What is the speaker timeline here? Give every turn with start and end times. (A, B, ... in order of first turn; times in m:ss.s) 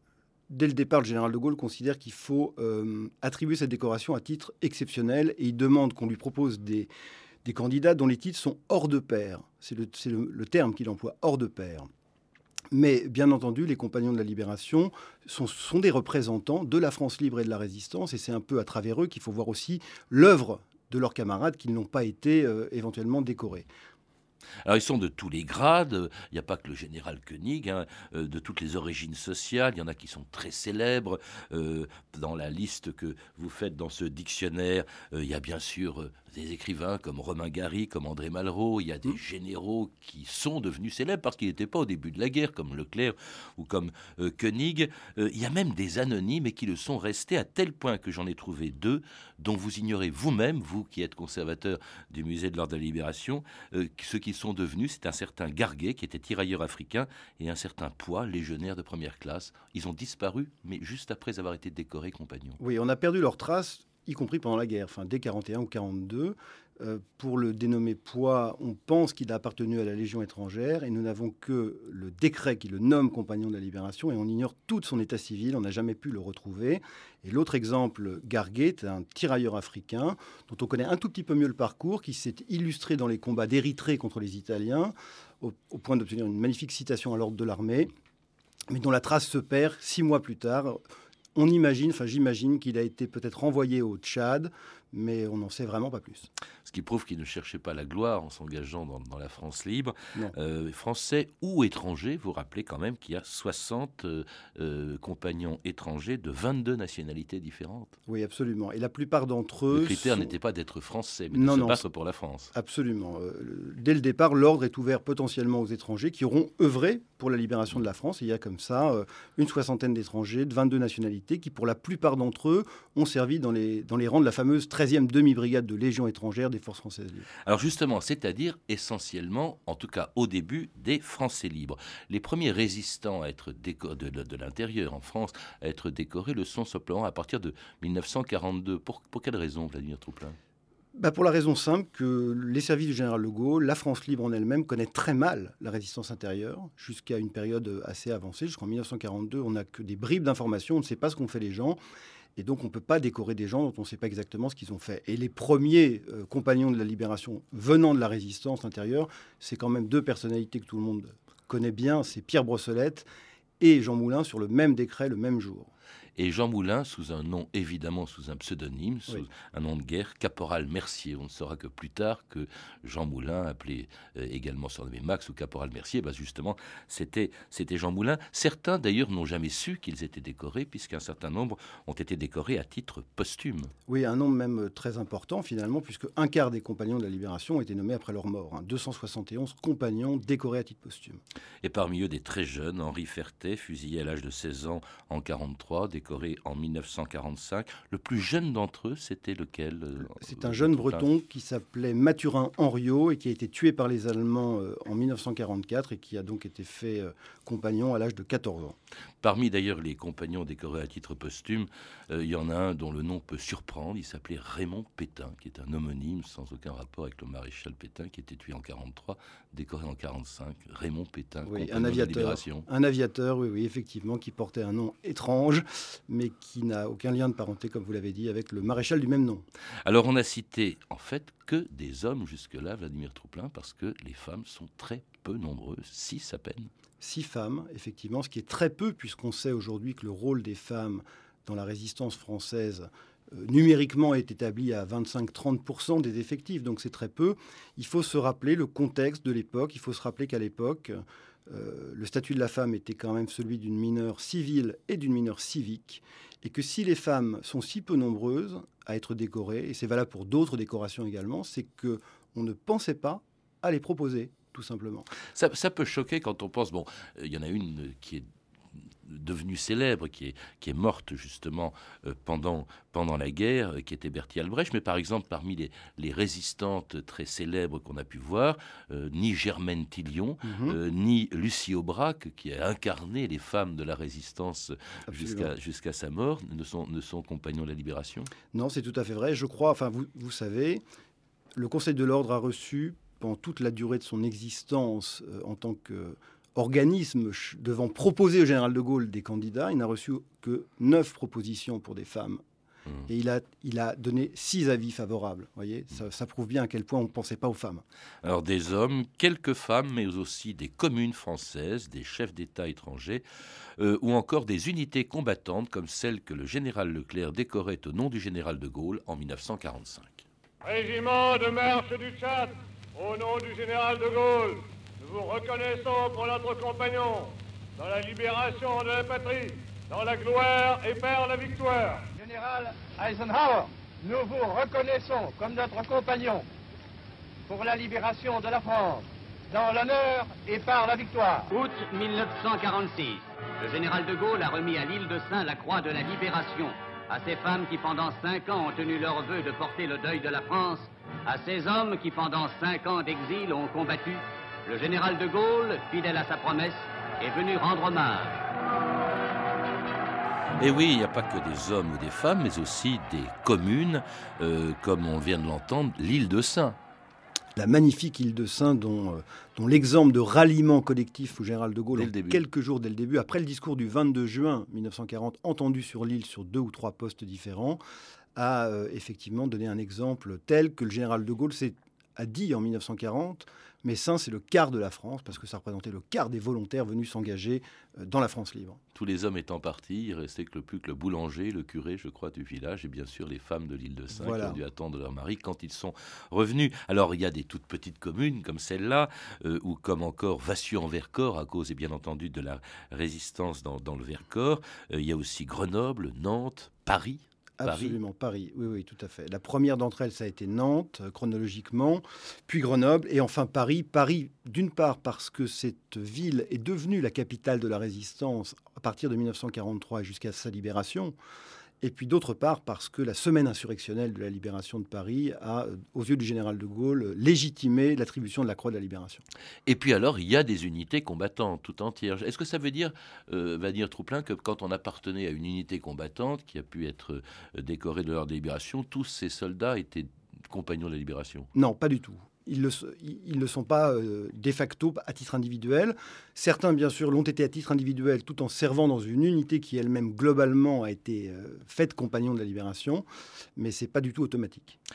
0:00.5-0:06.9 A
0:07.4-0:11.9 A
0:12.7-0:23.7 A
0:24.6-1:02.6 B
1:02.6-1:27.9 A
1:28.7-1:30.8 A
1:31.3-1:36.3 A
1:36.6-1:47.9 B
1:48.1-1:50.3 A
1:49.7-1:52.5 B
1:51.3-1:51.8 A
1:52.5-2:07.3 A
2:07.4-2:20.4 B
2:20.9-2:31.8 A
2:32.4-2:43.0 A
2:43.6-2:45.7 A
2:46.2-3:03.7 B
3:03.9-3:11.2 A
3:11.6-3:21.0 B
3:20.2-3:28.8 A
3:29.2-3:42.7 B
3:41.4-3:49.4 A
3:49.8-3:56.7 B
3:57.0-4:25.1 A
4:25.3-4:28.2 B
4:28.8-4:48.3 B
4:40.4-4:40.8 A
4:45.1-4:45.5 A
4:48.5-4:50.8 A
4:51.6-5:02.4 A
5:03.1-5:07.8 A
5:08.2-5:13.2 B
5:13.8-5:20.2 B
5:20.6-5:32.1 C
5:32.2-5:36.4 D
5:37.5-5:41.5 D
5:41.5-5:58.4 E
6:00.6-6:06.8 B
6:07.6-6:17.8 A
6:11.9-6:12.4 B
6:18.4-6:28.8 A
6:28.9-6:48.0 B
6:34.1-6:34.6 A
6:47.6-7:01.1 A
7:01.8-7:09.2 A
7:09.6-7:21.5 B
7:21.5-7:33.0 A
7:33.6-7:34.8 A